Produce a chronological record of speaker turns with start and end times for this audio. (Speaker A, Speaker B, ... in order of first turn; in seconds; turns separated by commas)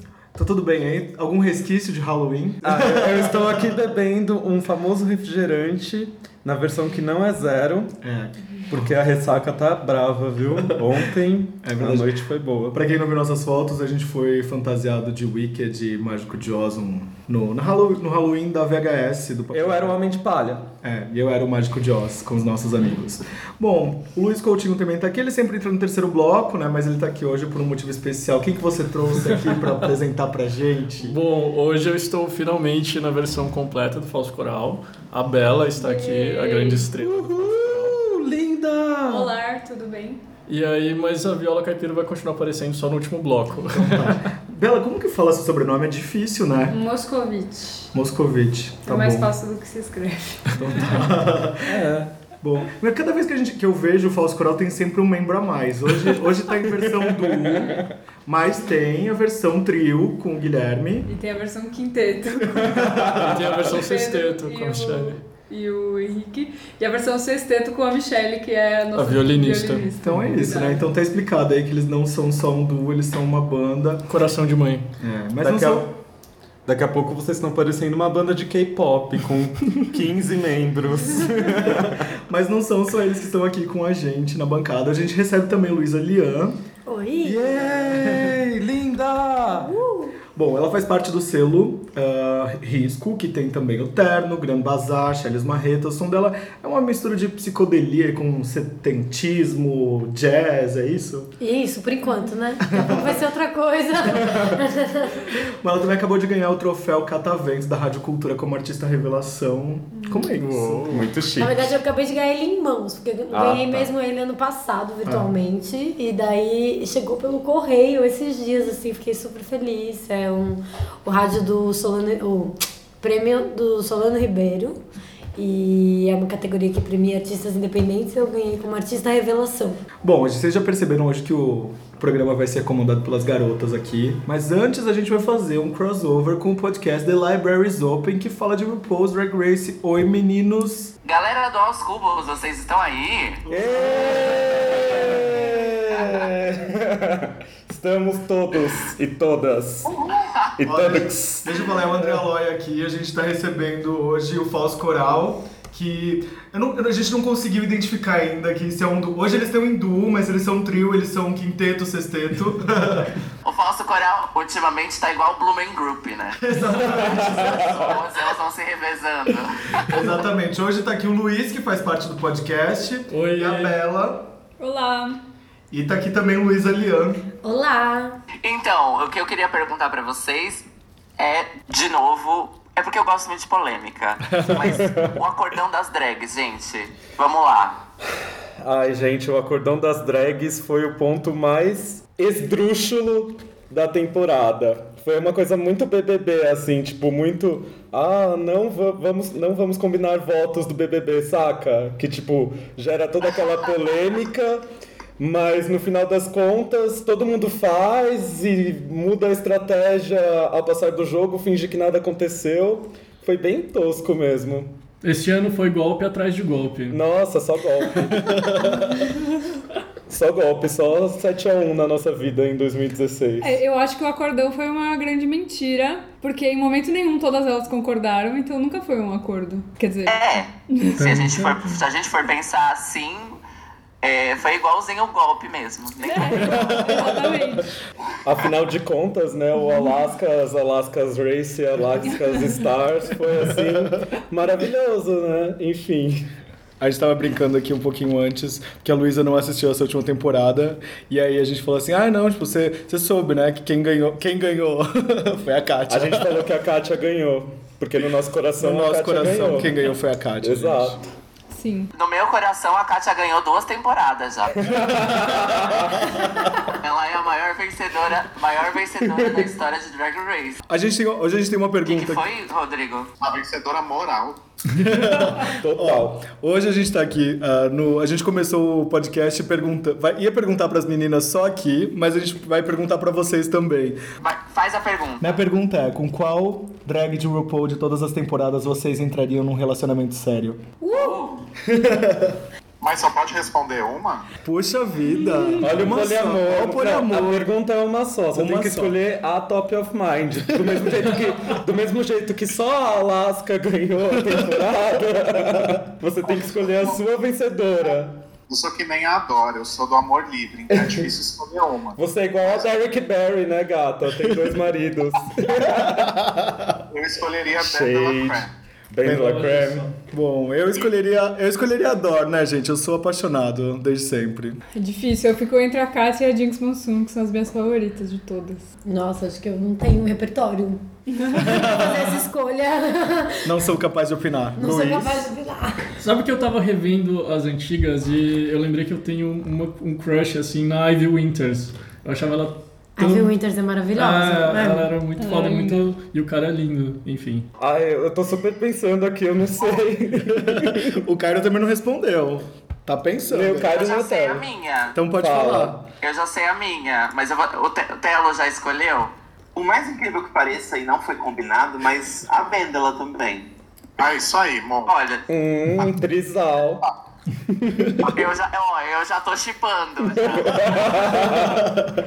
Speaker A: 0.3-3.8, Speaker B: 2.6-7.9, Speaker A: 8.0-8.9, Speaker B: 8.7-12.8, Speaker A: 11.6-20.0, Speaker B: 19.5-20.7, Speaker A: 20.8-31.2, Speaker C: 31.0-37.4, Speaker D: 35.8-36.9, Speaker B: 37.0-39.3, Speaker A: 37.4-38.0, Speaker D: 39.1-40.2, Speaker C: 40.5-44.2, Speaker A: 43.7-46.8, Speaker D: 46.7-47.9, Speaker A: 47.9-49.3, Speaker D: 48.8-51.0, Speaker A: 50.5-61.1, Speaker B: 51.6-52.1, Speaker B: 56.8-57.9, Speaker D: 61.1-62.9, Speaker B: 62.5-63.4, Speaker A: 62.6-63.4, Speaker C: 63.1-65.2, Speaker D: 63.6-70.9, Speaker C: 69.0-69.9, Speaker A: 70.0-74.1, Speaker C: 74.1-74.8, Speaker A: 75.0-75.9, Speaker B: 75.4-75.9, Speaker B: 76.7-82.1, Speaker A: 81.5-86.6, Speaker E: 86.8-87.9, Speaker B: 87.2-89.7, Speaker A: 87.9-88.4, Speaker E: 89.5-90.2, Speaker A: 90.3-101.3, Speaker E: 101.4-105.3, Speaker A: 102.7-103.2, Speaker A: 105.3-110.9, Speaker C: 110.3-111.1, Speaker B: 110.9-111.7, Speaker E: 111.4-124.8, Speaker B: 113.3-113.9, Speaker A: 115.0-115.3, Speaker E: 125.3-129.8, Speaker A: 130.0-140.9, Speaker F: 141.0-143.4, Speaker A: 143.5-145.4, Speaker B: 143.5-150.0, Speaker F: 150.2-150.6, Speaker B: 150.6-152.0, Speaker A: 150.6-163.2, Speaker F: 163.4-166.5, Speaker A: 166.4-167.9, Speaker B: 166.8-167.9, Speaker F: 167.0-169.9, Speaker A: 169.8-174.3, Speaker C: 173.1-173.8, Speaker D: 174.6-175.2, Speaker A: 175.7-177.2, Speaker E: 177.4-178.2, Speaker F: 178.4-180.7, Speaker F: 181.2-187.8, Speaker B: 184.8-185.1, Speaker B: 188.6-204.7, Speaker B: 205.2-214.7, Speaker C: 215.0-217.0, Speaker B: 216.9-219.1, Speaker B: 220.1-223.6, Speaker D: 223.4-231.1, Speaker F: 230.1-233.4, Speaker A: 231.0-231.8, Speaker F: 234.0-236.7, Speaker D: 236.0-237.7, Speaker A: 236.4-237.2, Speaker B: 236.4-236.8, Speaker B: 238.2-246.2, Speaker A: 243.4-244.0, Speaker A: 246.8-256.5, Speaker B: 255.9-259.7, Speaker A: 258.6-261.0, Speaker B: 260.4-261.1, Speaker D: 261.5-261.9, Speaker F: 261.9-264.5, Speaker B: 264.5-266.2, Speaker F: 265.7-266.0, Speaker F: 266.7-270.6, Speaker B: 269.0-269.4, Speaker A: 270.7-272.2, Speaker F: 271.8-273.1, Speaker G: 273.2-274.4, Speaker A: 274.7-284.0, Speaker B: 275.4-276.1, Speaker F: 284.2-285.4, Speaker A: 285.2-290.6, Speaker D: 290.8-291.4, Speaker F: 290.9-291.3, Speaker A: 291.6-292.4, Speaker G: 292.8-294.2, Speaker A: 294.4-297.5, Speaker D: 295.1-295.7, Speaker B: 295.6-308.2, Speaker A: 298.3-299.0, Speaker G: 306.3-307.0, Speaker G: 308.5-312.7, Speaker B: 310.7-311.1, Speaker B: 312.0-316.2, Speaker A: 315.7-316.6, Speaker G: 316.9-318.5, Speaker B: 317.6-319.9, Speaker A: 319.0-324.6, Speaker C: 319.1-319.8, Speaker D: 324.7-328.7, Speaker E: 328.8-333.5, Speaker D: 331.1-331.6, Speaker A: 331.4-332.2, Speaker A: 333.4-335.3, Speaker E: 334.6-335.9, Speaker C: 336.0-343.3, Speaker E: 343.0-344.9, Speaker C: 343.9-347.4, Speaker D: 345.2-345.9, Speaker B: 347.6-351.0, Speaker A: 350.3-353.8, Speaker B: 353.3-354.5, Speaker F: 353.7-355.0, Speaker A: 354.9-355.8, Speaker B: 355.1-355.8, Speaker F: 356.0-359.1, Speaker H: 359.5-363.5, Speaker G: 364.0-364.9, Speaker F: 364.9-365.2, Speaker B: 365.3-366.8, Speaker B: 367.5-368.0, Speaker F: 368.0-370.9, Speaker B: 370.0-371.6, Speaker A: 371.0-371.9